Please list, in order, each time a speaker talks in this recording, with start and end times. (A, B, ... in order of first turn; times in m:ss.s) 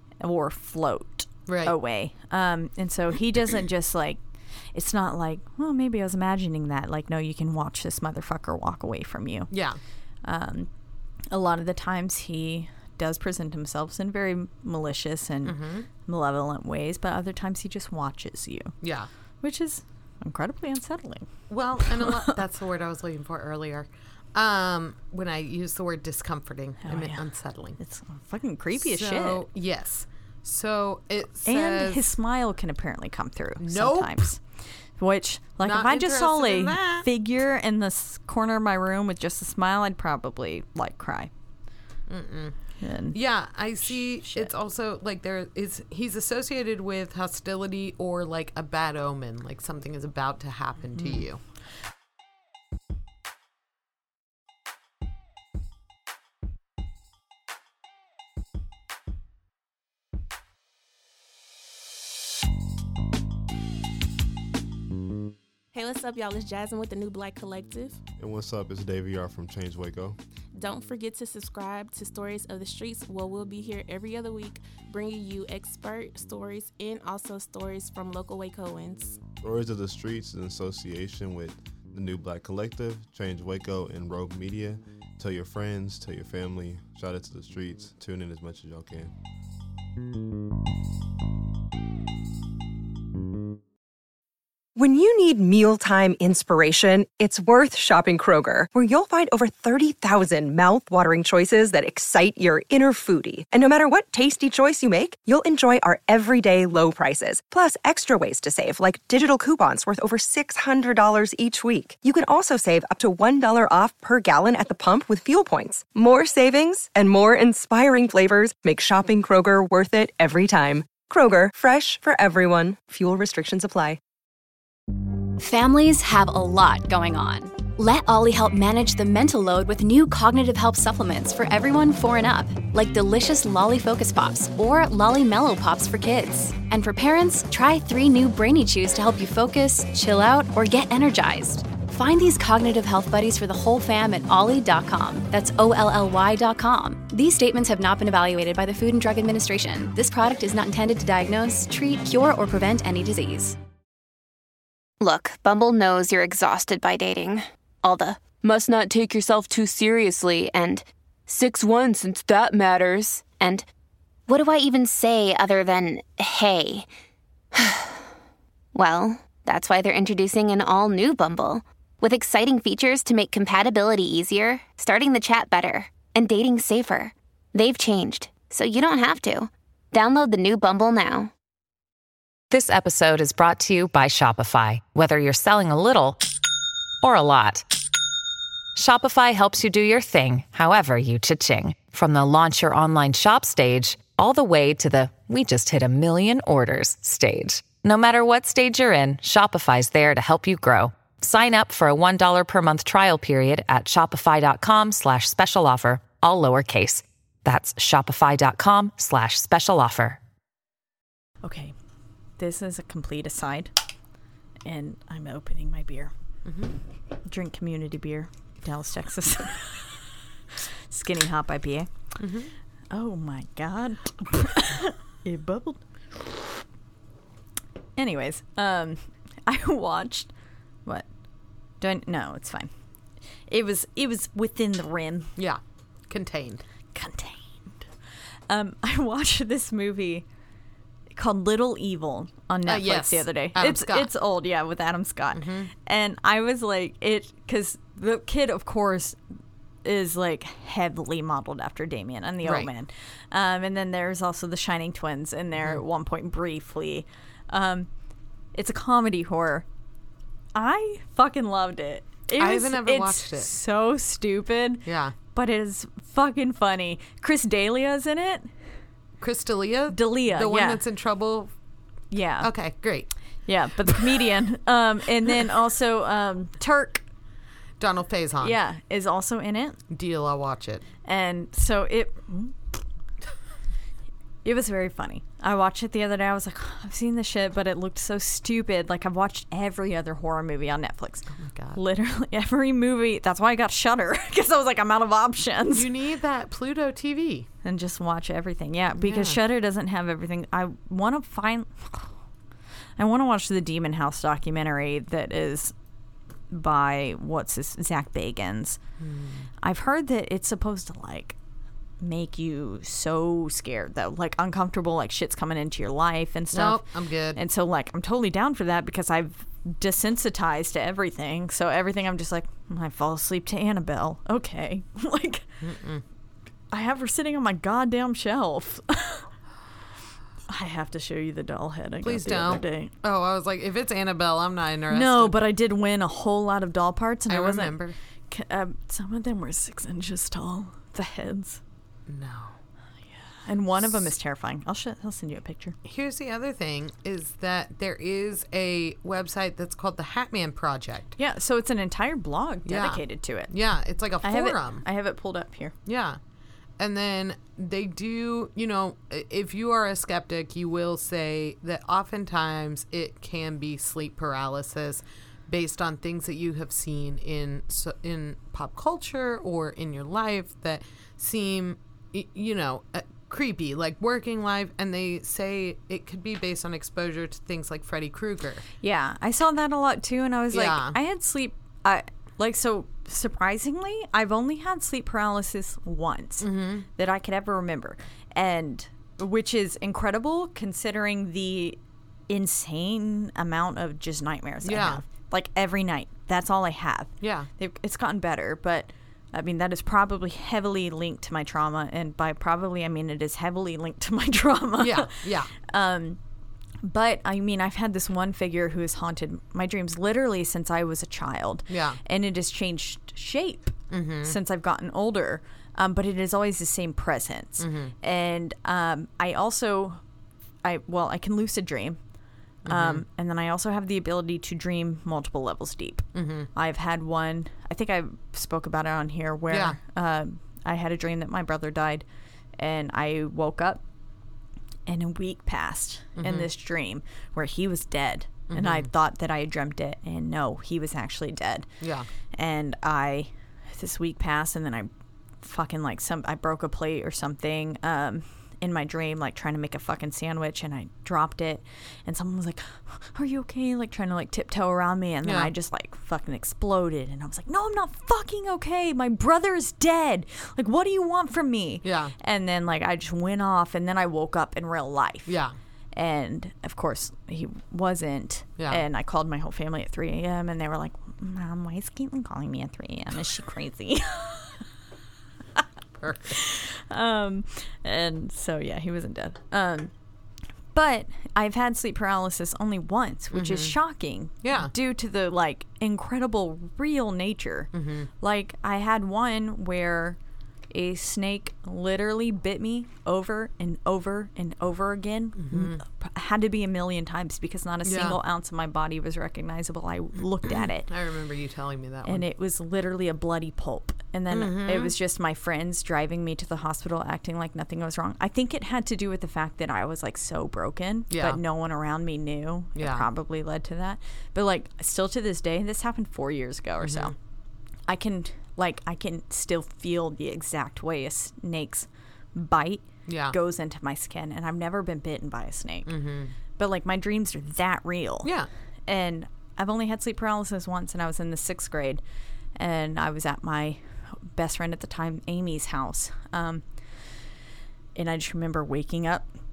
0:00.2-0:09.5 A
0:01.5-0:01.7 B
0:09.5-0:09.8 B
0:10.2-0:10.7 A
0:11.3-0:18.7 A
0:15.4-0:15.9 B
0:18.8-0:19.1 B
0:19.4-0:21.3 A
0:21.5-0:27.8 B
0:21.8-0:22.3 A
0:26.8-0:27.2 A
0:27.8-0:29.4 A
0:28.7-0:32.1 B
0:31.4-0:41.3 A
0:33.6-0:34.2 B
0:35.6-0:37.1 B
0:42.1-0:42.6 B
0:42.8-0:43.2 A
0:43.1-0:51.4 B
0:43.8-0:44.5 A
0:51.0-0:51.2 A
1:05.7-1:08.0 C
1:08.2-1:10.2 D
1:10.5-1:19.2 C
1:19.4-1:29.1 D
1:34.8-2:04.0 E
2:05.4-2:33.6 F
2:35.0-2:43.6 G
2:44.3-2:46.9 G
2:47.6-2:47.8 G
2:48.7-3:01.3 G
3:02.5-3:06.2 H
3:07.0-3:07.6 H
3:08.8-3:30.2 H
3:31.4-3:31.7 A
3:32.4-3:33.7 A
3:34.6-3:36.1 A
3:36.4-3:36.7 B
3:37.3-3:40.0 A
3:40.9-3:41.9 A
3:42.2-3:42.5 B
3:42.9-3:46.3 A
3:48.0-3:50.3 A
3:51.8-3:52.7 A
3:53.5-3:55.3 A
3:55.4-3:56.6 B
3:56.9-3:57.8 A
3:58.5-4:00.2 A
4:01.1-4:09.2 A
4:02.6-4:04.1 B
4:05.3-4:05.7 B
4:09.8-4:17.9 A
4:12.4-4:12.7 B
4:18.5-4:19.6 A
4:20.5-4:28.5 A
4:22.3-4:23.5 B
4:24.8-4:25.1 B
4:29.2-4:31.5 B
4:29.9-4:30.8 A
4:32.1-4:32.5 A
4:32.4-4:33.1 B
4:33.5-4:37.0 A
4:37.8-4:38.6 B
4:38.4-4:39.8 A
4:39.9-4:40.8 B
4:41.0-4:42.8 A
4:44.4-4:55.9 A
4:51.3-4:51.8 B
4:55.7-4:57.5 B
4:57.6-5:02.1 A
4:59.0-4:59.4 B
5:03.0-5:05.7 A
5:06.5-5:08.8 A
5:09.0-5:09.5 B
5:09.6-5:11.4 A
5:12.0-5:25.5 A
5:16.5-5:17.4 B
5:25.6-5:26.0 B
5:26.7-5:29.3 A
5:30.5-5:32.9 A
5:32.0-5:35.4 B
5:34.9-5:41.6 A
5:37.3-5:38.0 B
5:42.1-5:42.6 B
5:43.4-5:45.8 A
5:45.8-5:51.2 B
5:51.2-5:53.5 A
5:52.6-5:54.8 B
5:54.2-5:55.7 A
5:55.8-5:56.2 B
5:56.8-6:18.6 B
6:18.8-6:31.8 A
6:20.5-6:21.0 B
6:26.4-6:26.9 B
6:32.3-6:46.2 A
6:34.6-6:35.0 B
6:37.2-6:37.5 B
6:44.8-6:45.5 B
6:46.8-7:00.0 A
6:51.7-6:52.0 B
6:53.9-6:54.3 B
6:57.6-6:57.9 B
7:00.6-7:02.0 A
7:02.6-7:03.0 B
7:02.6-7:12.0 A
7:06.1-7:06.5 B
7:09.5-7:09.8 B
7:12.6-7:13.8 A
7:14.8-7:21.7 A
7:16.2-7:16.5 B
7:18.5-7:18.9 B
7:21.8-7:22.1 B
7:22.3-7:24.9 A
7:25.4-7:45.4 A
7:35.2-7:35.5 B
7:41.8-7:42.1 B
7:45.2-7:45.6 B
7:45.9-7:54.6 A
7:48.6-7:48.8 B
7:56.0-7:56.4 B
7:56.4-7:59.9 A
8:00.7-8:10.2 A
8:03.3-8:03.8 B
8:04.4-8:04.7 B
8:07.7-8:08.1 B
8:10.7-8:20.9 A
8:15.4-8:15.8 B
8:17.8-8:18.2 B
8:20.4-8:22.2 B
8:22.0-8:37.1 A
8:24.3-8:24.9 B
8:31.1-8:31.4 B
8:32.8-8:33.0 B
8:36.8-8:37.1 B
8:37.9-8:46.0 A
8:43.0-8:43.3 B
8:45.8-8:46.3 B
8:46.6-8:52.0 A
8:48.2-8:48.5 B
8:52.5-8:57.0 A
8:57.9-8:59.3 A